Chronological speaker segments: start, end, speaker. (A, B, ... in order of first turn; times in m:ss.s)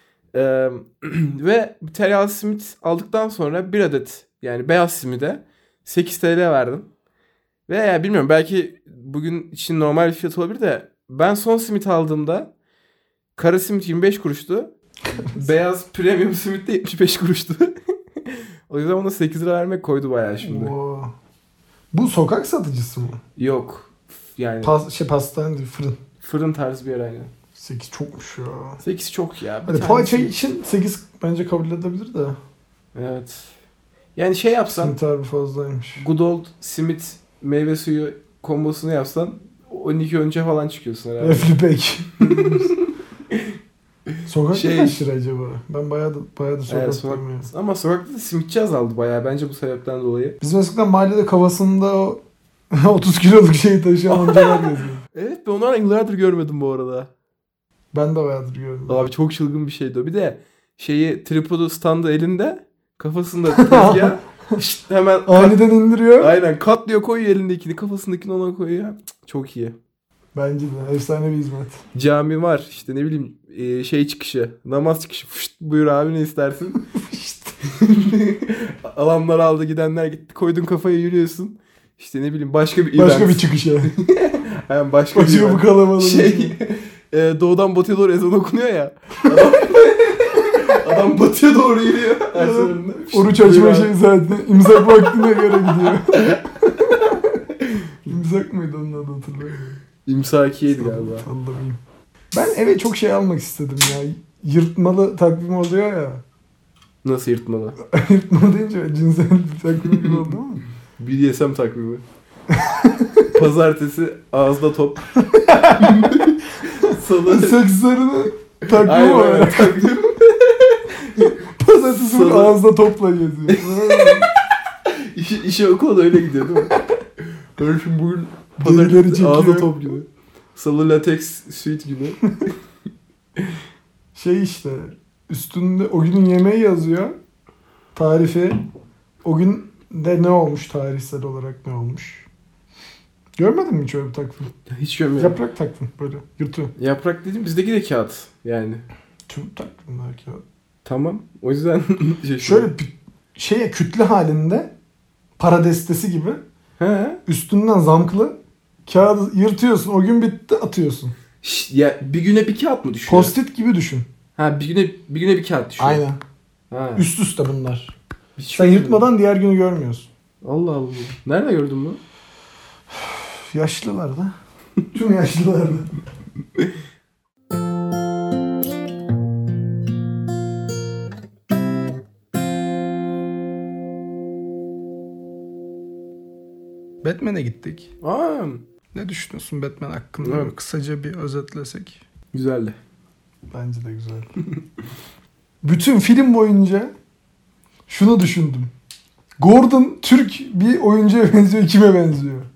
0:00.3-0:06.9 A
0:07.7-0:12.5 A
0:13.4-0:20.7 A
0:15.2-0:15.4 B
0:20.4-0:21.1 B
0:21.9-0:23.2 B
0:23.4-0:24.8 A
0:24.6-0:26.0 B
0:26.2-0:27.3 A
0:27.6-0:28.8 B
0:28.8-0:30.3 A
0:29.7-0:32.4 B
0:33.0-0:33.5 A
0:34.2-0:35.0 A
0:34.8-0:36.0 B
0:36.0-0:41.5 A
0:41.2-0:42.7 B
0:42.2-0:43.5 A
0:44.3-0:47.5 B
0:44.5-0:45.0 A
0:46.7-0:50.4 A
0:50.4-0:52.2 B
0:52.7-0:55.0 B
0:54.1-0:57.1 A
0:57.9-0:59.0 B
0:58.9-1:05.6 A
1:03.5-1:04.6 B
1:05.3-1:06.3 B
1:06.2-1:09.8 A
1:10.3-1:11.8 B
1:11.9-1:16.8 A
1:16.9-1:17.6 B
1:17.6-1:33.9 A
1:23.0-1:23.9 B
1:25.1-1:26.6 B
1:32.3-1:37.2 B
1:36.1-1:36.4 A
1:38.1-1:39.8 B
1:40.1-1:41.3 A
1:40.7-1:41.8 B
1:42.3-1:46.2 B
1:47.0-1:47.8 A
1:47.8-1:50.6 B
1:51.0-1:52.0 A
1:52.5-1:53.3 B
1:53.3-1:55.2 A
1:55.3-1:56.1 B
1:55.7-1:57.6 A
1:57.2-1:59.8 B
1:58.7-2:02.6 A
2:01.6-2:04.3 B
2:03.5-2:04.3 A
2:04.9-2:06.8 A
2:07.6-2:12.2 A
2:08.6-2:10.0 B
2:14.2-2:17.2 B
2:17.9-2:18.6 B
2:19.2-2:22.3 B
2:23.4-2:24.5 B
2:24.7-2:25.4 A
2:25.2-2:26.7 B
2:26.8-2:28.8 A
2:29.3-2:30.4 B
2:30.8-2:32.7 A
2:32.4-2:34.7 B
2:35.4-2:36.4 B
2:36.8-2:37.2 A
2:37.3-2:41.1 B
2:41.4-2:43.4 A
2:43.1-2:44.1 B
2:44.4-2:46.0 A
2:45.8-2:46.2 B
2:46.7-2:47.1 A
2:47.0-2:47.9 B
2:48.4-2:49.0 A
2:48.5-2:50.1 B
2:50.4-2:52.0 A
2:52.9-2:54.3 B
2:54.9-2:55.9 B
3:07.0-3:07.9 B
3:08.0-3:08.6 A
3:08.9-3:12.0 B
3:10.2-3:10.5 A
3:12.3-3:12.8 A
3:13.5-3:14.3 B
3:15.6-3:16.9 B
3:17.9-3:18.7 B
3:19.4-3:22.5 B